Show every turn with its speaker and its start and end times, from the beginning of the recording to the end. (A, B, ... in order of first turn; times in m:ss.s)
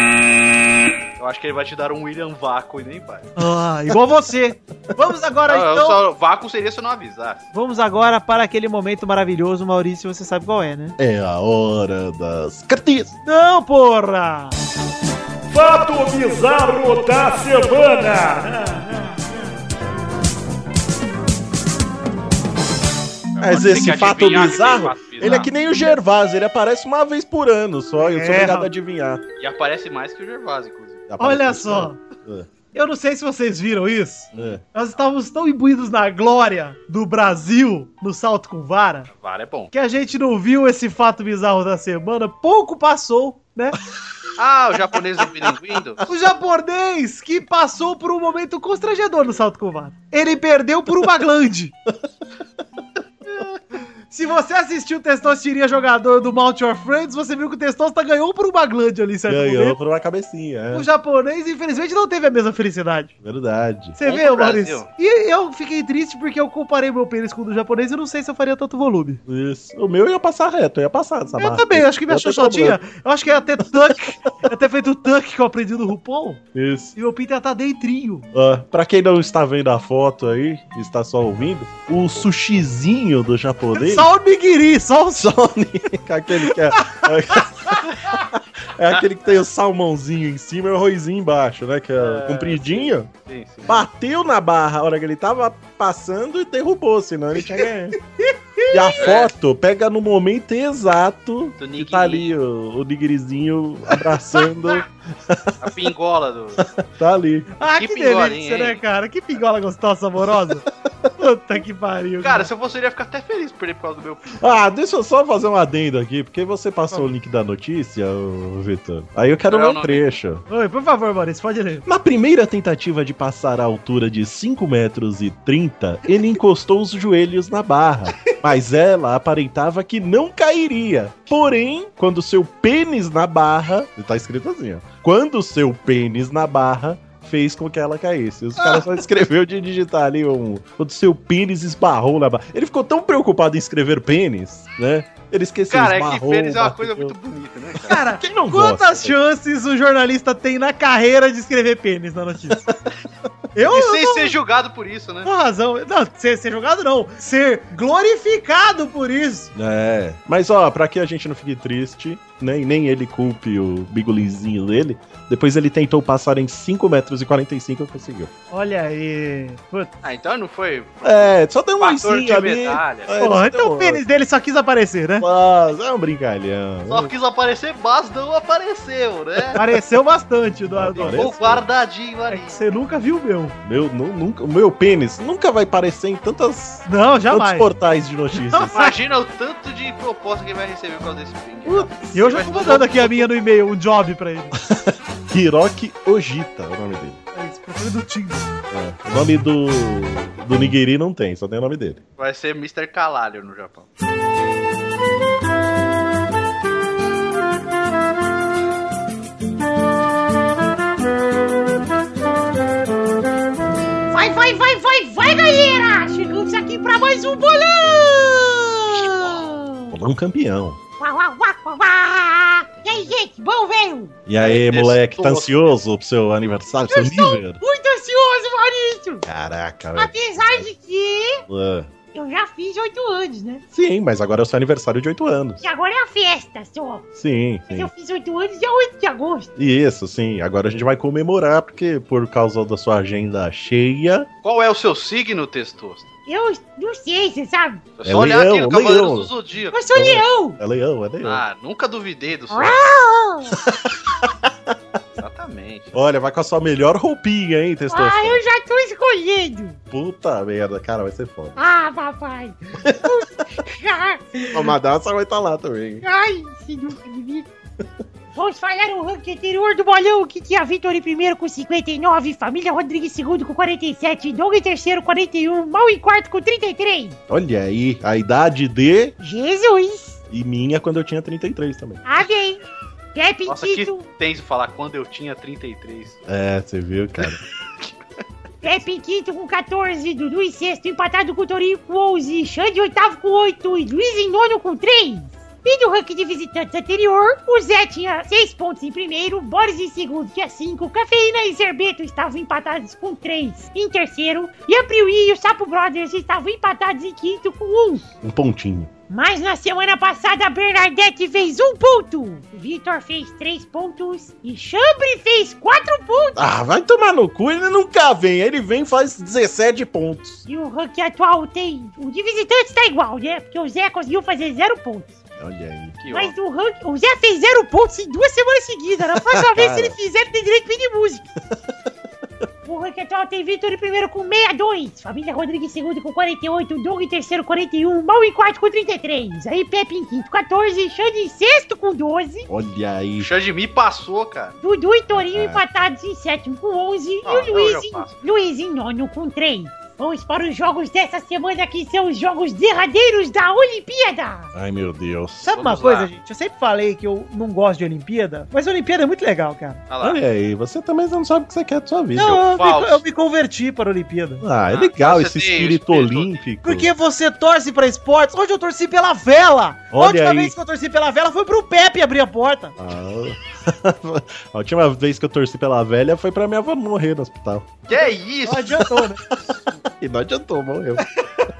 0:01.2-0:03.3 A
0:03.4-0:06.0 B
0:05.5-0:07.4 A
0:07.5-0:11.0 B
0:11.0-0:13.2 C
0:13.2-0:14.5 B
0:15.5-0:18.5 D
0:18.4-0:19.1 B
0:23.4-0:25.4 A
0:23.4-0:29.2 C
0:25.2-0:25.5 B
0:28.0-0:28.7 B
0:29.4-0:31.1 A
0:31.1-0:32.5 C
0:31.2-0:32.0 B
0:32.7-0:39.1 B
0:34.3-0:34.6 C
0:39.1-0:39.7 A
0:39.7-0:43.8 B
0:44.4-0:46.0 A
0:46.0-0:51.7 B
0:54.1-0:59.8 B
0:59.3-1:00.9 C
1:00.7-1:03.1 B
1:03.2-1:04.0 C
1:04.0-1:09.2 B
1:04.0-1:04.9 A
1:09.3-1:12.8 C
1:11.4-1:16.4 B
1:13.6-1:14.3 C
1:16.5-1:16.9 C
1:17.0-1:18.3 B
1:18.3-1:24.1 C
1:23.7-1:25.3 B
1:25.2-1:33.1 C
1:26.4-1:28.1 B
1:32.0-1:33.8 A
1:33.6-1:38.0 C
1:38.2-1:38.9 B
1:38.7-1:45.7 C
1:39.0-1:39.3 A
1:41.6-1:42.3 A
1:44.3-1:44.8 B
1:45.6-1:46.6 A
1:46.6-1:47.5 C
1:47.6-1:50.6 B
1:47.8-1:48.8 A
1:51.2-1:52.5 B
1:52.2-1:54.4 A
1:54.4-2:00.4 C
1:59.5-2:00.0 A
2:00.5-2:01.8 B
2:01.8-2:27.2 C
2:25.7-2:28.0 A
2:27.9-2:32.7 B
2:28.2-2:29.2 C
2:33.5-2:34.4 B
2:33.7-2:35.3 A
2:35.2-2:39.5 B
2:39.5-2:48.3 C
2:48.5-2:49.9 B
2:50.0-2:53.1 A
2:51.0-2:54.0 C
2:53.2-2:55.3 B
2:55.2-2:57.1 C
2:56.9-2:59.6 A
2:59.6-3:01.3 B
3:00.7-3:01.6 C
3:01.0-3:02.6 A
3:02.3-3:03.5 B
3:03.6-3:08.8 C
3:06.8-3:07.7 B
3:08.4-3:08.9 B
3:08.7-3:13.2 A
3:11.7-3:14.5 B
3:14.6-3:17.2 C
3:17.3-3:18.5 B
3:18.7-3:22.0 C
3:22.2-3:23.9 A
3:34.1-3:40.0 E
3:39.9-3:40.8 C
3:41.0-3:44.2 E
3:44.3-3:47.6 C
3:44.4-3:45.7 A
3:46.9-3:49.2 E
3:49.2-3:50.7 C
3:50.0-3:51.4 E
3:51.5-3:51.9 C
3:52.1-3:53.6 E
3:53.7-3:55.6 C
3:55.6-3:57.1 E
3:57.1-3:57.9 C
3:57.7-3:59.5 E
3:59.6-4:04.3 C
4:04.4-4:06.0 A
4:06.3-4:07.9 E
4:08.0-4:09.8 A
4:08.0-4:09.3 C
4:09.7-4:10.6 E
4:09.9-4:11.4 C
4:11.2-4:12.8 A
4:12.5-4:13.6 E
4:13.6-4:14.7 C
4:15.2-4:15.9 A
4:15.9-4:18.4 C
4:17.9-4:19.8 E
4:19.9-4:21.6 C
4:21.6-4:24.6 E
4:22.8-4:23.1 C
4:24.5-4:26.0 C
4:26.0-4:27.5 E
4:28.3-4:37.2 E
4:37.3-4:39.1 C
4:39.2-4:40.2 E
4:40.3-4:42.0 C
4:42.0-4:42.6 E
4:43.1-4:44.1 E
4:43.5-4:46.2 A
4:46.3-4:47.4 C
4:48.6-5:08.0 E
5:08.2-5:08.9 C
5:09.1-5:16.4 E
5:16.4-5:20.4 C
5:20.4-5:25.2 E
5:25.4-5:26.1 C
5:26.0-5:26.3 A
5:26.1-5:31.2 E
5:29.1-5:30.0 C
5:32.6-5:42.5 E
5:42.5-5:43.3 C
5:43.2-5:44.6 A
5:44.6-5:54.5 E
5:45.1-5:45.6 C
5:47.2-5:48.2 A
5:54.5-5:55.5 C
5:55.4-5:59.8 B
5:55.5-5:56.1 A
5:59.9-6:00.2 A
6:00.0-6:02.4 C
6:02.1-6:04.4 B
6:02.4-6:03.0 A
6:04.4-6:06.9 C
6:04.7-6:06.4 A
6:06.6-6:12.8 B
6:09.9-6:10.5 C
6:12.8-6:17.9 C
6:17.9-6:18.9 A
6:18.4-6:19.2 B
6:19.8-6:21.1 C